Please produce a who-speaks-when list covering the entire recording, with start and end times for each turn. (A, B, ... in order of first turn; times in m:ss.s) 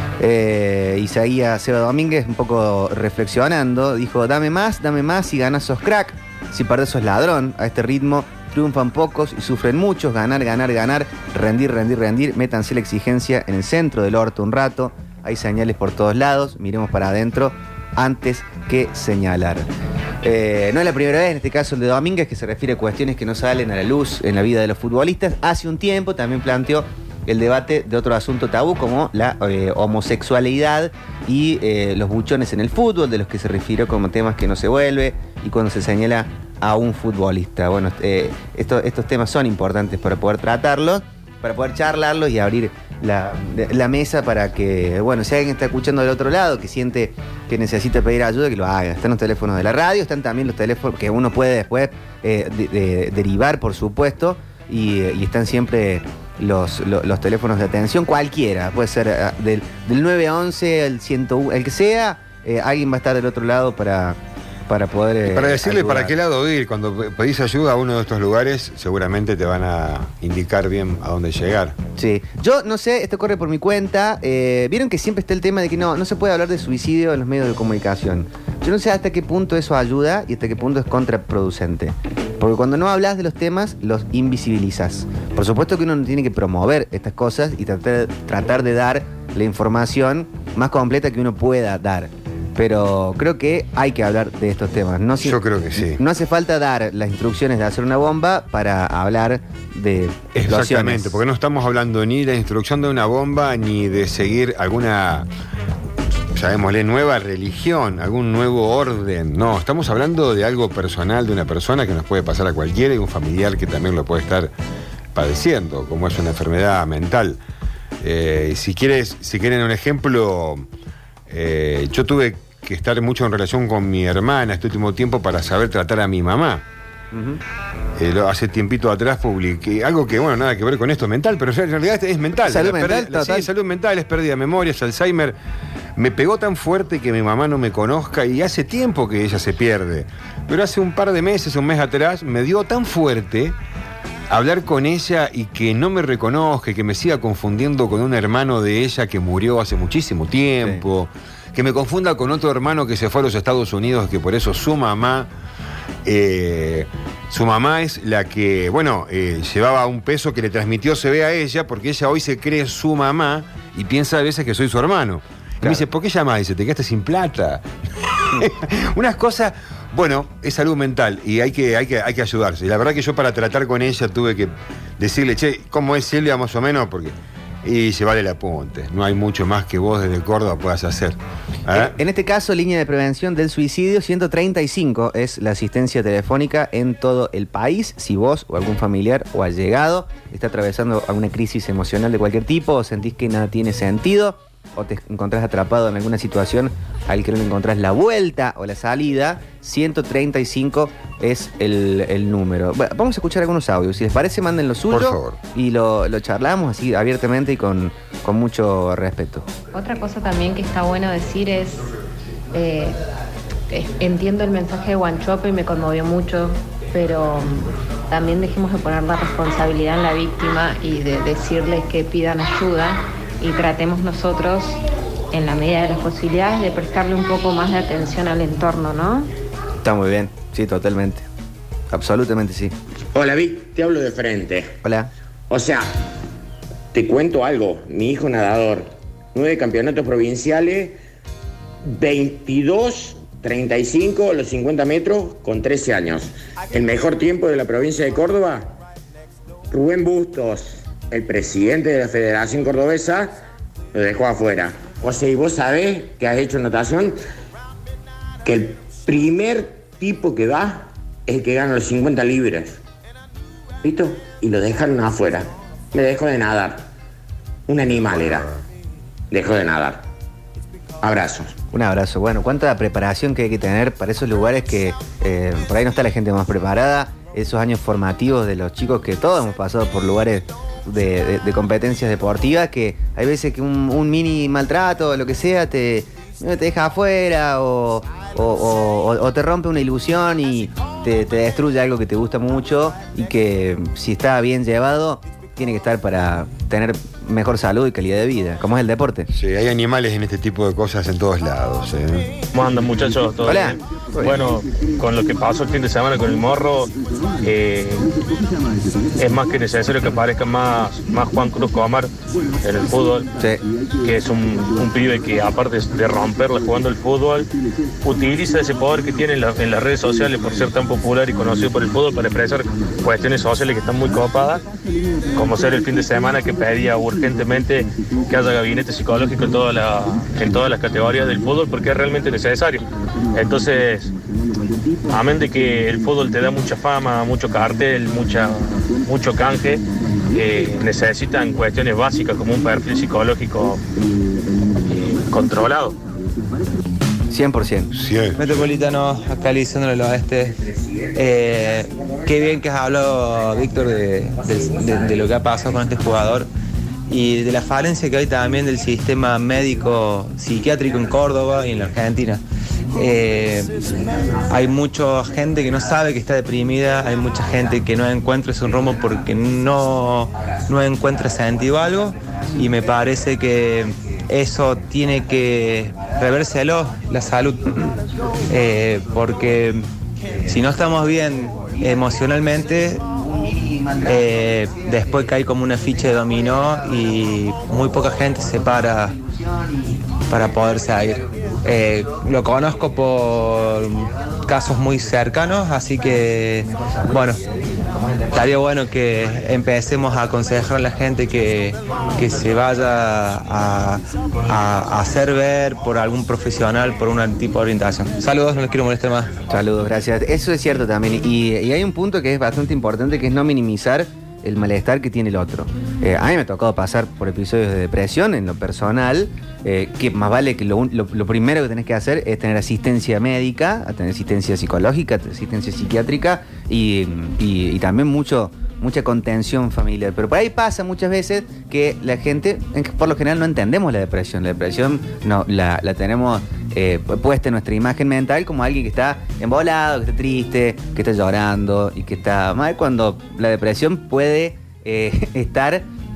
0:00.2-0:19.6 A
0:20.2-1:04.2 A
1:04.7-1:06.1 A
1:05.3-1:11.7 B
1:12.0-1:41.2 A
1:35.2-1:36.0 B
1:40.3-1:45.3 B
1:46.3-1:54.5 B
1:55.1-1:57.4 B
1:58.0-2:00.7 B
2:01.3-2:06.6 B
2:07.1-2:07.4 A
2:08.0-2:15.4 B
2:12.5-2:13.5 A
2:16.0-2:23.5 B
2:24.3-2:35.3 B
2:36.0-2:47.6 B
2:48.2-3:01.9 B
3:01.7-3:29.4 A
3:24.9-3:25.4 B
3:29.7-3:31.9 C
3:32.5-3:33.0 C
3:33.7-3:44.8 C
3:45.3-3:49.3 C
3:49.8-3:51.2 A
3:51.9-3:52.7 A
3:53.1-3:54.8 D
3:54.8-3:55.1 A
3:55.5-3:55.9 D
3:56.9-4:01.0 D
4:01.8-4:08.7 D
4:09.7-4:13.4 D
4:13.9-4:17.2 D
4:18.4-4:22.8 D
4:23.8-4:26.9 D
4:27.7-4:28.5 D
4:29.3-4:30.0 D
4:31.0-4:31.6 D
4:31.7-4:59.3 A
4:59.3-5:02.3 B
5:02.5-5:06.9 E
5:03.4-5:04.4 A
5:07.4-5:08.1 E
5:09.2-5:12.1 E
5:12.6-5:13.3 E
5:14.0-5:17.5 E
5:18.0-5:24.6 E
5:25.3-5:34.1 E
5:35.1-5:43.8 E
5:44.9-5:46.0 E
5:47.3-5:47.9 A
5:47.9-5:48.4 B
5:48.4-5:50.5 F
5:51.2-5:56.5 F
5:57.1-6:02.4 F
6:03.0-6:03.7 F
6:04.5-6:17.8 F
6:18.5-6:19.8 F
6:20.4-6:23.0 F
6:24.0-6:29.2 F
6:30.3-6:37.4 F
6:38.3-6:49.3 F
6:49.5-7:25.8 A